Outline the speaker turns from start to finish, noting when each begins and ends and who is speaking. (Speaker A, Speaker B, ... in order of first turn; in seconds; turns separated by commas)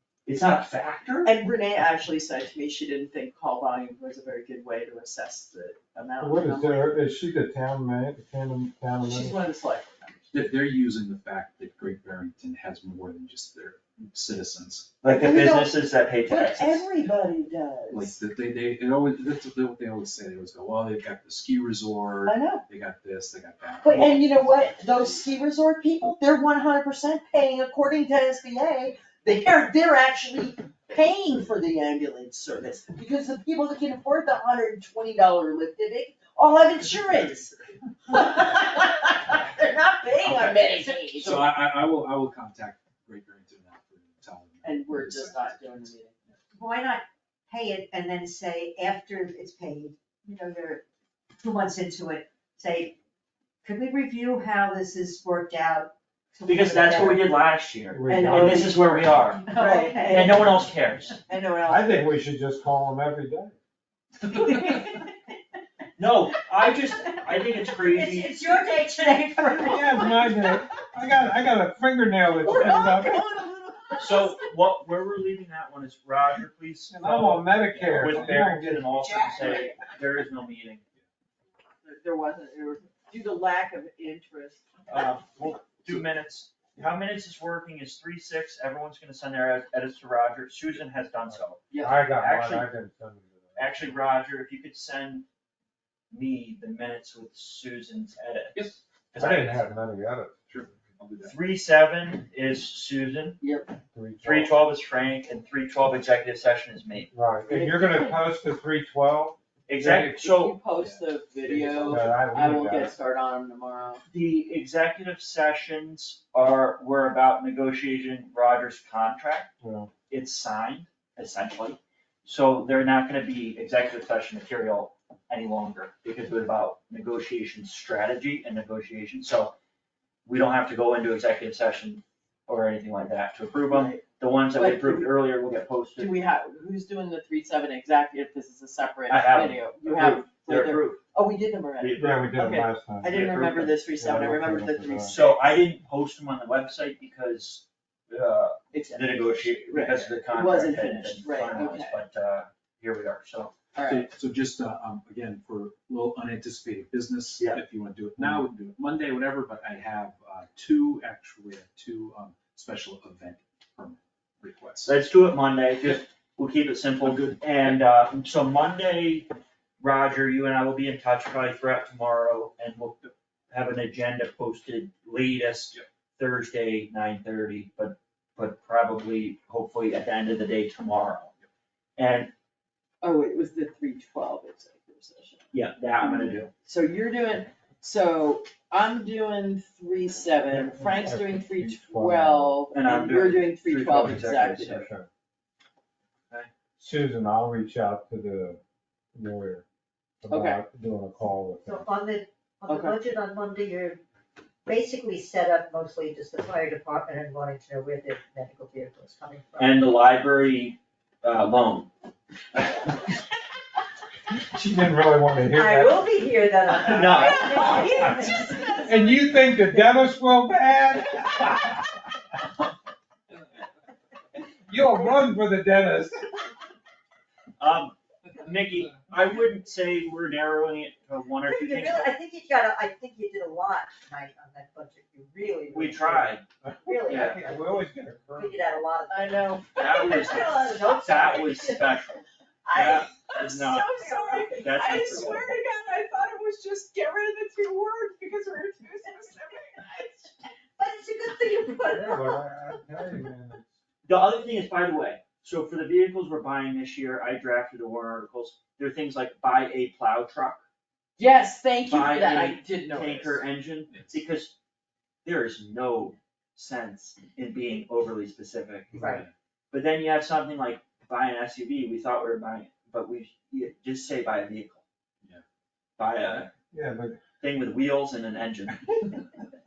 Speaker A: 0.2-1.3, Speaker B: 1.2-7.0, Speaker C: 6.2-9.4, Speaker B: 9.0-10.4, Speaker D: 10.3-14.9, Speaker A: 15.0-16.9, Speaker B: 15.0-18.2, Speaker D: 17.9-24.8, Speaker B: 22.2-22.6, Speaker B: 23.8-37.6, Speaker B: 38.1-41.5, Speaker E: 40.2-41.1, Speaker D: 41.2-46.3, Speaker B: 44.6-46.1, Speaker E: 46.5-50.8, Speaker E: 51.4-53.0, Speaker E: 53.6-57.4, Speaker A: 56.5-61.1, Speaker C: 57.9-58.8, Speaker B: 58.1-58.7, Speaker E: 58.1-58.6, Speaker E: 59.4-60.5, Speaker B: 59.5-60.4, Speaker B: 61.3-62.2, Speaker C: 61.6-63.5, Speaker A: 64.3-65.0, Speaker E: 64.4-65.0, Speaker A: 66.0-68.4, Speaker E: 66.9-70.4, Speaker C: 69.5-73.2, Speaker B: 70.0-70.5, Speaker B: 72.4-74.4, Speaker A: 72.4-72.8, Speaker A: 74.0-80.8, Speaker C: 76.9-79.1, Speaker B: 77.8-78.4, Speaker B: 78.9-79.9, Speaker B: 81.8-84.7, Speaker A: 84.9-92.7, Speaker B: 91.7-92.0, Speaker C: 91.7-94.0, Speaker A: 93.5-95.2, Speaker A: 96.1-99.7, Speaker C: 99.1-100.4, Speaker D: 100.5-101.4, Speaker A: 101.2-103.4, Speaker B: 103.4-103.7, Speaker C: 103.9-104.5, Speaker A: 104.2-107.1, Speaker C: 107.1-110.1, Speaker B: 107.5-108.3, Speaker A: 109.7-110.6, Speaker B: 109.9-114.0, Speaker C: 111.5-112.9, Speaker A: 114.1-119.5, Speaker C: 119.6-119.9, Speaker A: 120.1-129.6, Speaker A: 130.2-136.2, Speaker B: 133.7-134.0, Speaker B: 134.5-135.2, Speaker B: 136.0-145.5, Speaker A: 139.1-141.0, Speaker A: 141.8-142.4, Speaker C: 141.9-145.2, Speaker A: 143.1-143.7, Speaker A: 145.1-153.6, Speaker B: 148.7-152.0, Speaker B: 153.7-154.1, Speaker D: 153.8-164.9, Speaker A: 157.4-157.6, Speaker A: 164.8-181.3, Speaker A: 182.0-182.3, Speaker B: 183.0-185.4, Speaker A: 185.5-186.5, Speaker B: 186.0-194.9, Speaker C: 190.5-192.6, Speaker A: 192.7-194.8, Speaker C: 194.1-195.1, Speaker C: 196.8-198.6, Speaker C: 199.1-199.6, Speaker C: 200.2-201.8, Speaker B: 200.3-200.6, Speaker E: 201.6-204.0, Speaker B: 202.7-202.9, Speaker E: 204.7-209.8, Speaker A: 209.6-211.9, Speaker A: 212.5-213.2, Speaker C: 214.5-216.1, Speaker E: 215.5-218.9, Speaker A: 216.8-217.8, Speaker B: 217.1-219.2, Speaker C: 218.8-221.8, Speaker C: 224.7-226.3, Speaker A: 227.6-232.1, Speaker E: 231.4-237.8, Speaker A: 235.7-236.4, Speaker C: 236.6-238.8, Speaker A: 237.0-237.4, Speaker E: 238.3-241.8, Speaker B: 239.1-240.8, Speaker A: 239.8-243.9, Speaker E: 242.6-243.1, Speaker B: 242.8-250.3, Speaker E: 243.9-245.3, Speaker A: 244.5-245.5, Speaker E: 250.8-252.7, Speaker C: 251.8-253.7, Speaker A: 254.0-260.6, Speaker B: 261.2-263.4, Speaker A: 261.9-264.5, Speaker D: 263.9-264.2, Speaker A: 265.2-269.1, Speaker E: 268.9-269.2, Speaker D: 268.9-269.3, Speaker A: 269.7-274.8, Speaker A: 276.0-276.5, Speaker C: 276.7-277.2, Speaker A: 277.4-279.1